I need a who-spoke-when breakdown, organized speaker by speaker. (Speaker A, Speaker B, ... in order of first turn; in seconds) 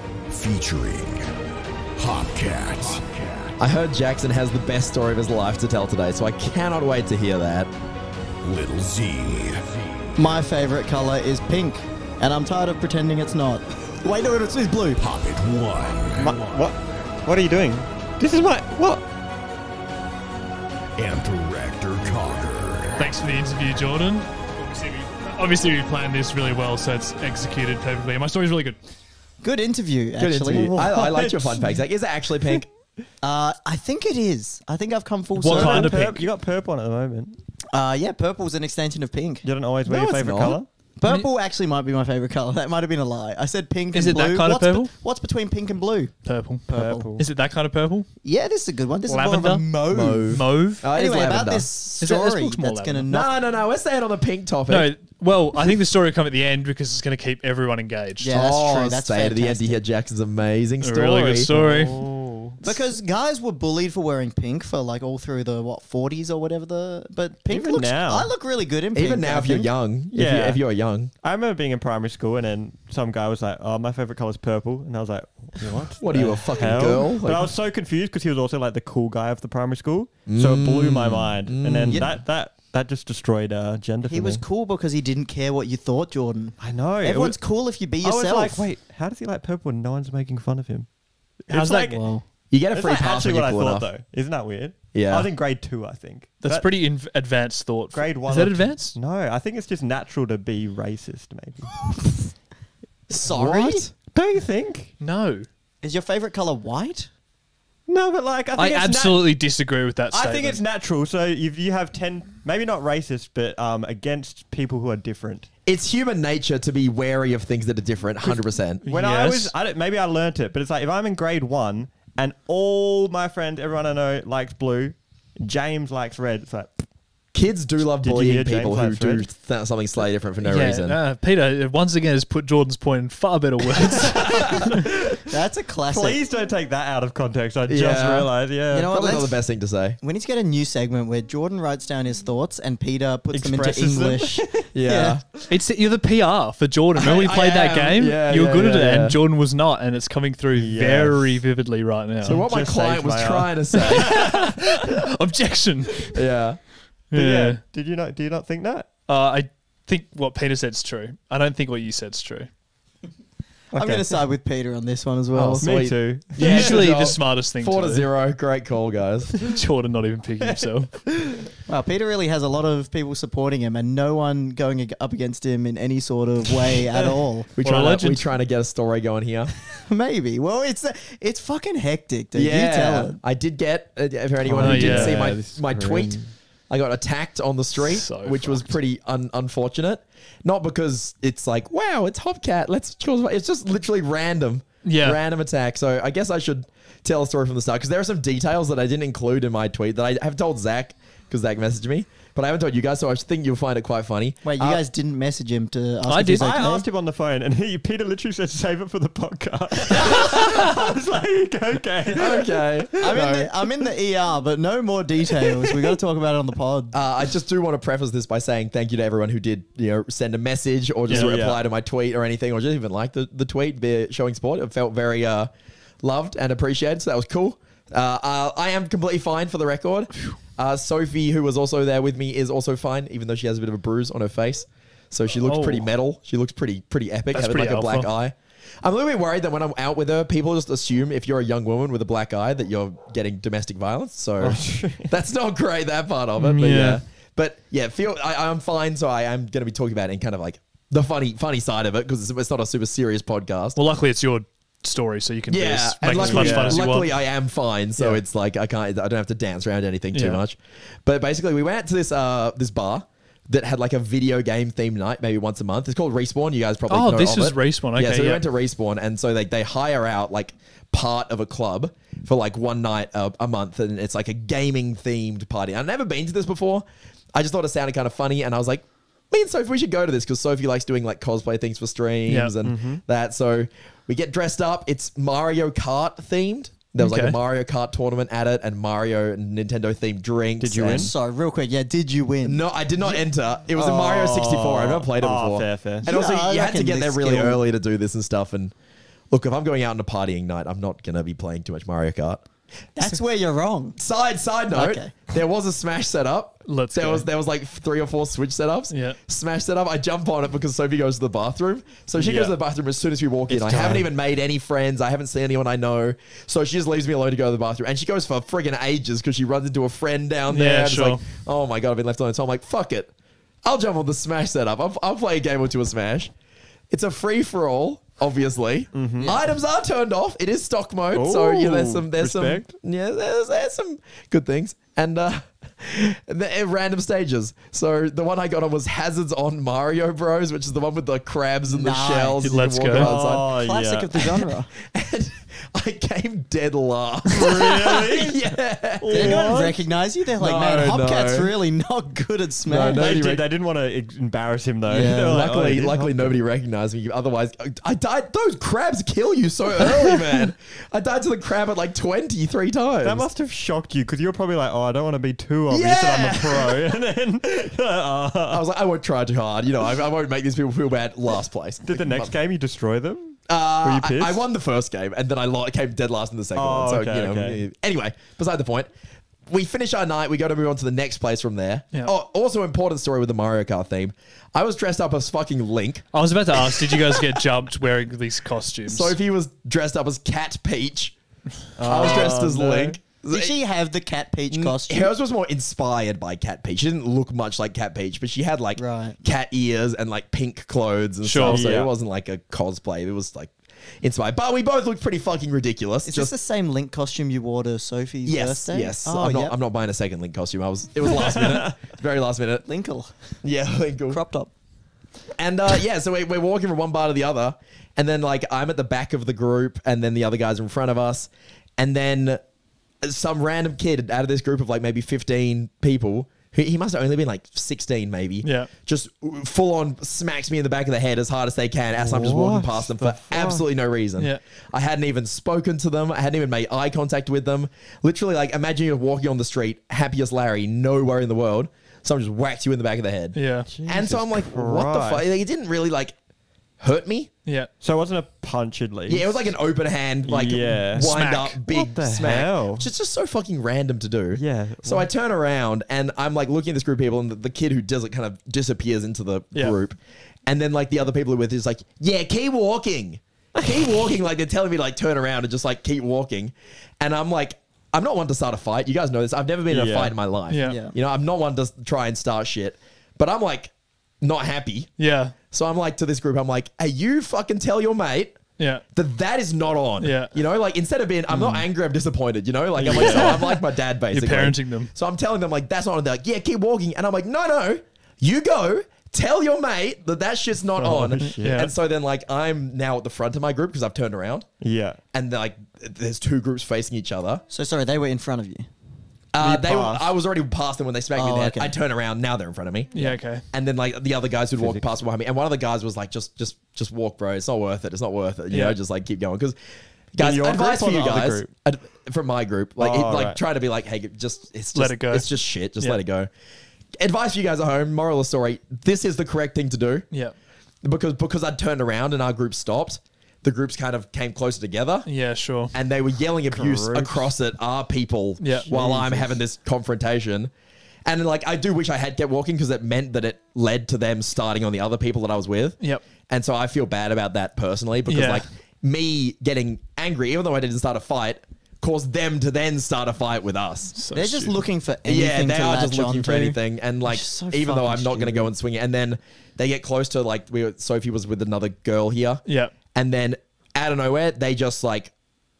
Speaker A: 0.3-1.3, 2.0-3.5, 8.4-9.8, 15.0-16.3, 21.0-23.1
Speaker B: 3.6-7.7, 30.2-32.7, 40.2-40.6, 49.9-51.7, 53.1-54.9, 58.3-61.5, 68.9-71.1, 76.0-77.5, 80.3-82.1, 92.5-93.9, 94.9-95.3, 103.1-103.9, 115.7-118.8, 127.3-131.0, 137.7-138.3, 138.9-140.0, 144.7-145.3, 146.9-149.2, 152.2-154.4, 156.1-156.6, 165.3-169.3, 177.6-179.5, 182.3-204.8, 212.1-213.5, 216.9-225.5, 226.0-253.8, 255.5-291.1, 292.4-298.7, 299.3-302.4, 304.0-323.1, 323.6-326.3, 326.9-343.5, 344.8-349.4, 350.4-351.5, 352.6-353.4, 354.9-363.3, 365.7-366.8, 368.5-372.3, 373.5-378.9, 379.5-387.4, 388.9-391.1, 391.8-393.5, 394.5-406.3, 408.2-412.6, 413.4-414.2, 415.4-422.4, 423.0-446.1, 446.8-447.3, 449.1-474.9, 475.5-494.5, 495.1-497.4, 499.3-502.9, 503.5-509.6, 510.1-516.3, 517.0-520.0, 520.8-525.1, 525.7-530.5, 531.0-543.9, 545.0-555.1
Speaker C: 10.2-15.0, 29.4-30.8, 33.2-35.9, 37.7-40.4, 41.0-47.1, 48.2-53.3, 58.2-59.8, 62.6-69.7, 84.1-88.7, 101.9-102.3, 103.1-103.9, 105.8-107.1, 134.3-134.7, 135.2-136.2, 138.7-139.4, 140.0-145.2, 163.7-165.7, 171.7-177.5, 179.7-183.2, 204.4-206.8, 212.9-216.9, 290.8-292.6, 296.0-297.6, 302.9-304.0, 304.7-305.1, 329.2-329.4, 341.7-344.7, 349.1-353.0, 354.9-355.4, 393.3-395.1, 398.8-399.2, 406.1-409.6, 412.6-413.4, 414.1-414.5, 470.6-470.9, 497.5-498.7, 499.4-500.1, 501.1-501.7, 544.1-548.5
Speaker D: 16.2-19.0, 30.5-31.8, 35.5-37.4, 39.4-40.7, 46.7-47.2, 61.4-62.6, 67.5-68.3, 70.1-70.6, 71.2-84.4, 86.6-96.7, 97.9-101.9, 104.1-104.9, 107.9-109.4, 110.1-115.5, 118.2-126.8, 128.0-129.3, 134.1-134.7, 135.9-138.9, 143.3-144.7, 150.5-151.4, 152.2-154.3, 157.1-158.9, 163.7-164.2, 165.6-166.8, 170.4-171.1, 184.4-186.3, 206.3-212.5, 215.4-215.8, 221.1-221.6, 244.4-245.1, 256.1-256.8, 282.6-283.0, 290.6-291.1, 293.7-296.1, 312.2-312.6, 313.5-314.1, 328.9-329.3, 331.1-332.7, 342.9-344.3, 347.3-348.4, 349.0-349.8, 352.9-356.4, 363.0-368.6, 371.9-374.4, 376.5-377.6, 391.8-393.0, 401.4-401.9, 411.0-411.8, 432.0-433.6, 443.7-445.3, 447.8-449.6, 450.2-452.9, 454.3-455.1, 463.5-464.1, 469.7-470.1, 481.3-481.6, 482.8-483.5, 490.8-491.7, 494.6-495.0, 504.6-504.9, 510.2-511.5, 512.8-513.4, 526.5-527.3, 528.6-529.4
Speaker E: 16.2-16.6, 23.0-28.8, 35.4-36.3, 41.0-41.3, 43.9-44.9, 46.2-48.1, 49.1-50.9, 52.0-53.1, 54.7-58.3, 60.8-62.0, 91.5-92.3, 96.4-99.0, 105.0-105.5, 108.5-110.6, 118.8-119.5, 130.4-134.6, 145.5-152.4, 153.7-156.2, 157.1-157.6, 159.1-162.5, 166.4-168.1, 169.4-171.1, 177.6-178.3, 184.6-185.5, 187.8-188.7, 194.8-195.2, 206.1-206.7, 221.1-221.3, 235.4-235.8, 237.3-238.1, 246.4-247.0, 253.8-257.1, 260.1-260.4, 266.9-268.4, 282.3-282.5, 287.0-287.4, 306.6-307.2, 308.9-309.2, 320.5-321.2, 342.4-343.1, 386.1-389.1, 401.2-401.6, 428.4-428.7, 443.3-443.7, 451.1-451.6, 470.5-470.8, 475.0-475.3, 478.6-478.8, 480.0-480.3, 482.9-484.9, 491.4-491.7, 502.9-503.4, 508.5-508.8, 514.7-515.3, 525.0-525.7, 528.4-528.7, 535.8-536.0, 538.1-538.4, 543.9-544.6, 552.5-552.7